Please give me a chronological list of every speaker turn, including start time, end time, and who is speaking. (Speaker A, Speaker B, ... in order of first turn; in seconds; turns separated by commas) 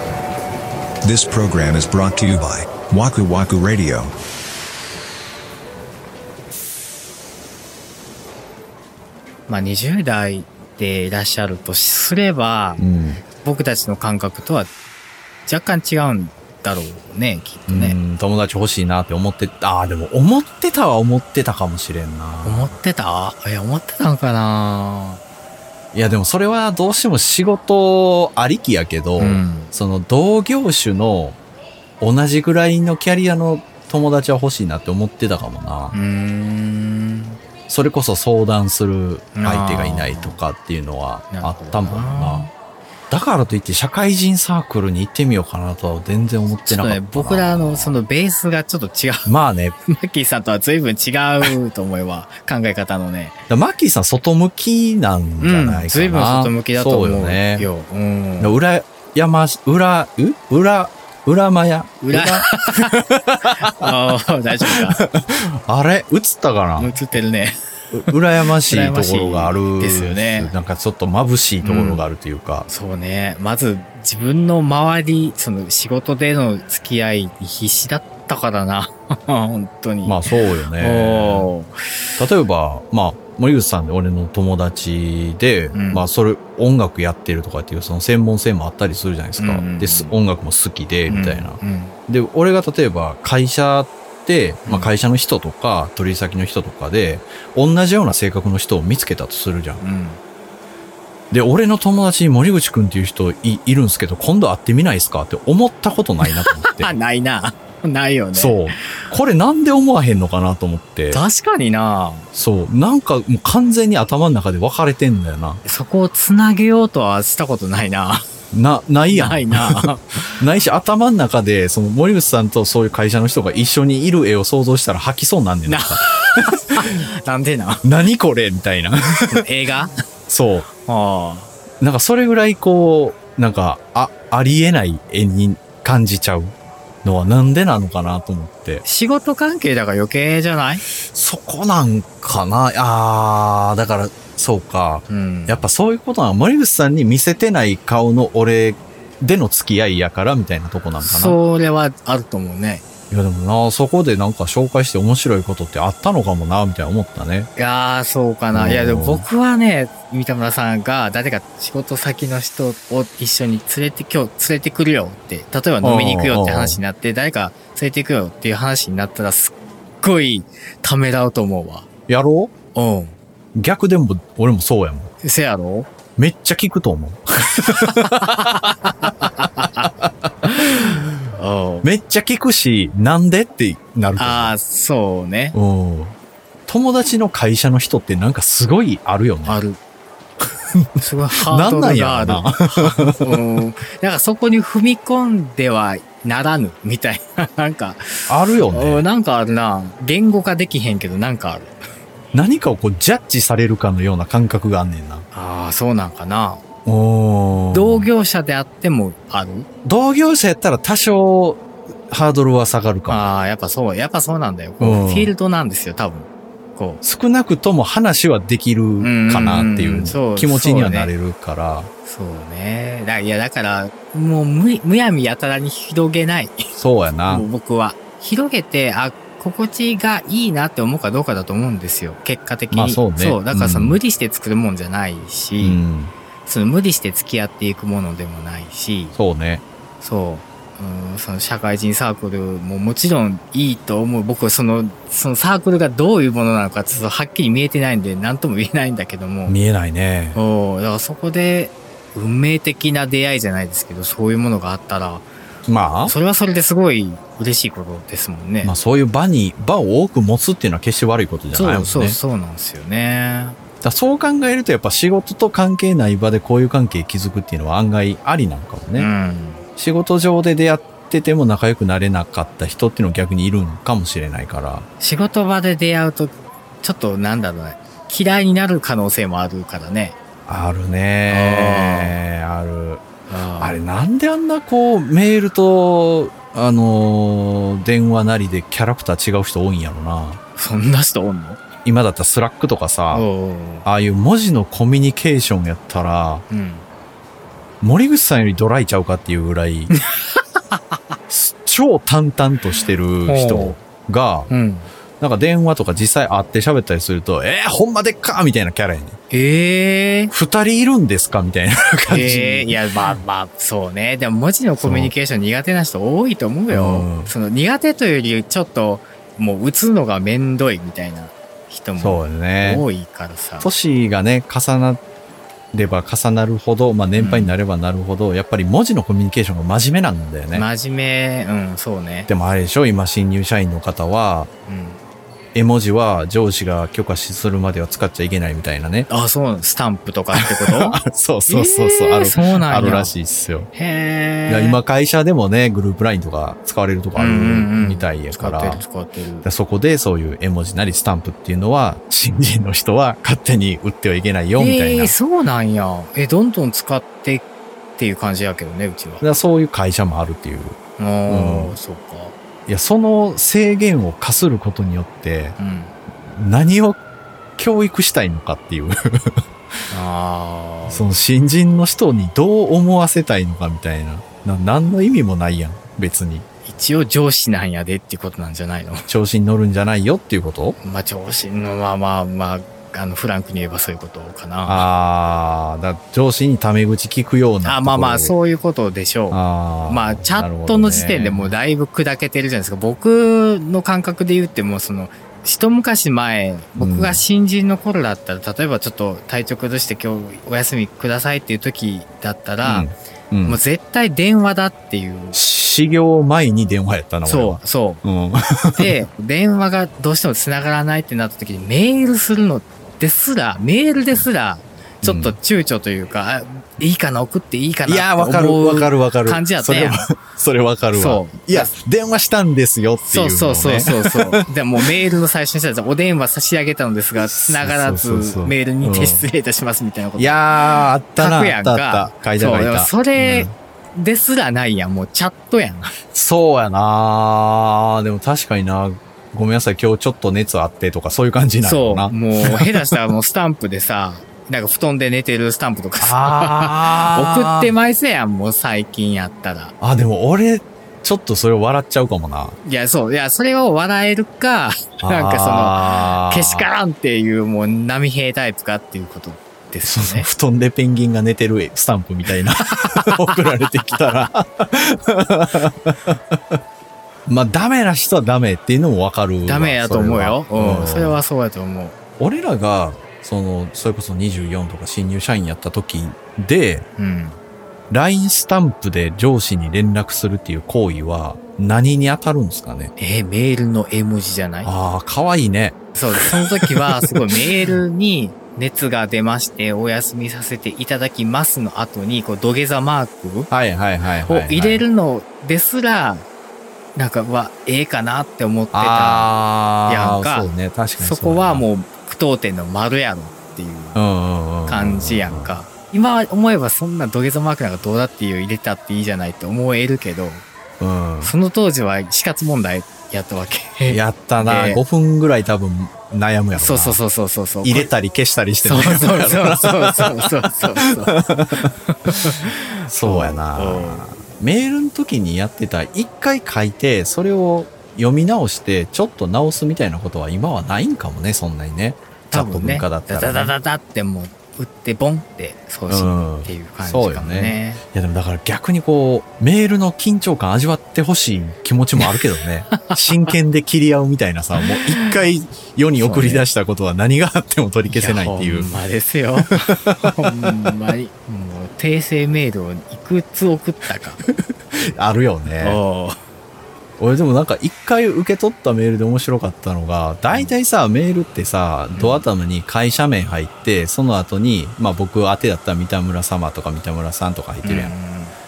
Speaker A: 1.0-4.1, Speaker B: 9.5-12.8, Speaker C: 12.8-13.2, Speaker B: 13.4-14.7, Speaker B: 15.4-18.0, Speaker C: 17.7-22.8, Speaker B: 22.4-25.2, Speaker C: 25.9-31.4, Speaker B: 29.2-29.7, Speaker C: 32.0-36.0, Speaker B: 35.9-37.4, Speaker C: 37.7-42.5, Speaker B: 39.3-40.4, Speaker B: 41.3-42.5, Speaker C: 43.1-48.0, Speaker B: 46.6-49.3, Speaker C: 49.2-49.8, Speaker B: 49.9-53.4, Speaker C: 53.5-57.7, Speaker B: 55.4-58.5, Speaker C: 58.4-64.1, Speaker B: 62.0-63.0, Speaker B: 63.6-65.0, Speaker C: 64.7-66.9, Speaker B: 66.8-67.6, Speaker C: 67.9-72.7, Speaker B: 68.6-70.5, Speaker B: 71.6-72.0, Speaker B: 72.7-82.1, Speaker C: 80.0-81.5, Speaker C: 82.2-99.8, Speaker B: 85.7-86.0, Speaker B: 89.4-90.1, Speaker B: 91.1-92.0, Speaker B: 94.7-94.9, Speaker B: 99.8-100.2, Speaker C: 101.3-106.9, Speaker B: 106.2-108.9, Speaker C: 108.3-111.2, Speaker B: 111.1-112.3, Speaker C: 112.3-115.6, Speaker B: 115.6-118.3, Speaker C: 118.5-126.9, Speaker B: 119.1-120.3, Speaker B: 125.7-127.8, Speaker C: 127.8-129.4, Speaker B: 129.2-129.9, Speaker C: 130.3-130.7, Speaker B: 130.8-131.5, Speaker C: 131.8-138.8, Speaker B: 138.8-140.8, Speaker C: 141.1-151.4, Speaker B: 145.1-145.7, Speaker B: 151.0-152.8, Speaker C: 153.1-157.5, Speaker B: 157.6-171.9, Speaker C: 158.5-159.3, Speaker C: 165.8-166.8, Speaker C: 172.1-172.5, Speaker B: 172.7-173.2, Speaker C: 173.6-175.1, Speaker B: 175.2-175.9, Speaker C: 176.2-181.1, Speaker B: 177.9-179.9, Speaker B: 181.3-181.9, Speaker C: 181.8-184.5, Speaker B: 184.2-185.6, Speaker C: 185.5-186.2, Speaker C: 186.7-189.6, Speaker B: 189.4-189.8, Speaker B: 191.0-201.7, Speaker C: 191.4-193.4, Speaker C: 198.3-199.0, Speaker C: 202.3-205.2, Speaker B: 205.3-206.6, Speaker C: 206.8-208.1, Speaker B: 207.7-209.7, Speaker C: 209.8-213.2, Speaker B: 213.1-217.0, Speaker C: 214.8-215.3, Speaker C: 217.0-221.9, Speaker B: 219.0-221.1, Speaker B: 222.0-226.7, Speaker C: 226.8-227.5, Speaker B: 227.2-235.8, Speaker C: 232.7-234.0, Speaker C: 235.6-236.1, Speaker B: 236.4-239.2, Speaker C: 239.2-239.6, Speaker B: 240.0-249.6, Speaker C: 249.5-250.4, Speaker B: 250.3-255.3, Speaker C: 255.7-256.1, Speaker B: 256.0-258.7, Speaker C: 258.6-262.2, Speaker B: 261.5-263.6, Speaker C: 263.8-269.1, Speaker B: 268.9-269.6, Speaker C: 269.8-274.9, Speaker B: 275.0-280.1, Speaker C: 280.5-283.1, Speaker B: 281.3-282.2, Speaker B: 283.3-283.8, Speaker C: 283.6-290.4, Speaker B: 290.6-291.6, Speaker C: 291.8-293.3, Speaker B: 293.1-293.9, Speaker C: 293.8-296.4, Speaker B: 296.5-296.8, Speaker C: 297.8-299.9, Speaker B: 299.9-300.9, Speaker C: 301.3-304.5, Speaker B: 303.2-303.8, Speaker B: 304.5-304.9, Speaker C: 305.2-309.2, Speaker B: 309.3-310.3, Speaker C: 310.3-313.2, Speaker B: 312.1-323.7, Speaker C: 314.8-315.1, Speaker C: 316.7-317.3, Speaker C: 322.0-322.8, Speaker C: 323.6-325.0, Speaker C: 325.7-330.7, Speaker B: 327.1-327.6, Speaker B: 330.5-332.3, Speaker C: 332.3-334.5, Speaker B: 334.7-335.0, Speaker C: 335.5-339.1, Speaker B: 339.1-343.1, Speaker C: 340.3-343.7, Speaker B: 343.7-344.8, Speaker C: 344.5-348.8, Speaker B: 347.1-349.5, Speaker C: 349.4-355.1, Speaker B: 354.6-359.2, Speaker C: 359.2-361.7, Speaker B: 361.0-362.3, Speaker C: 362.7-365.6, Speaker B: 365.6-365.9, Speaker C: 366.3-367.0, Speaker C: 367.6-369.4, Speaker B: 369.9-371.2, Speaker C: 370.9-376.4, Speaker B: 376.6-379.1, Speaker C: 379.1-380.8, Speaker B: 380.8-384.9, Speaker C: 384.6-388.3, Speaker B: 387.6-402.9, Speaker C: 389.3-391.5, Speaker C: 396.8-397.2, Speaker C: 402.6-403.6, Speaker B: 403.4-405.4, Speaker C: 405.3-409.0, Speaker B: 407.2-408.0, Speaker B: 408.8-420.0, Speaker C: 415.0-415.4, Speaker C: 417.9-424.9, Speaker B: 420.9-421.7, Speaker B: 423.0-435.9, Speaker C: 427.2-429.3, Speaker C: 430.1-433.5, Speaker C: 436.1-443.0, Speaker B: 441.6-449.7, Speaker C: 446.0-447.7, Speaker C: 449.8-452.6, Speaker B: 452.6-460.3, Speaker C: 455.0-456.7, Speaker C: 459.8-466.6, Speaker B: 462.6-464.2, Speaker C: 467.3-471.2, Speaker B: 469.4-471.9, Speaker C: 472.2-476.9, Speaker B: 477.0-477.4, Speaker C: 477.9-482.9, Speaker B: 483.0-484.7, Speaker C: 484.6-487.7, Speaker B: 485.9-493.5, Speaker C: 493.5-494.8, Speaker B: 494.2-496.2, Speaker B: 496.9-499.3, Speaker C: 498.7-501.6, Speaker B: 499.8-504.0, Speaker C: 503.9-505.6, Speaker B: 504.7-510.4, Speaker C: 510.8-511.3, Speaker B: 511.2-514.8, Speaker C: 513.9-517.0, Speaker B: 516.5-517.9, Speaker C: 517.6-522.1, Speaker B: 518.6-524.1, Speaker C: 522.9-533.5, Speaker B: 532.3-537.8, Speaker C: 535.9-548.7, Speaker B: 542.8-543.3, Speaker B: 544.6-545.2, Speaker B: 546.0-546.5, Speaker B: 547.9-554.2, Speaker C: 549.5-550.5, Speaker C: 554.8-555.8, Speaker B: 555.6-556.2, Speaker C: 557.0-567.9, Speaker B: 560.3-560.5, Speaker B: 561.9-562.2, Speaker B: 567.6-568.4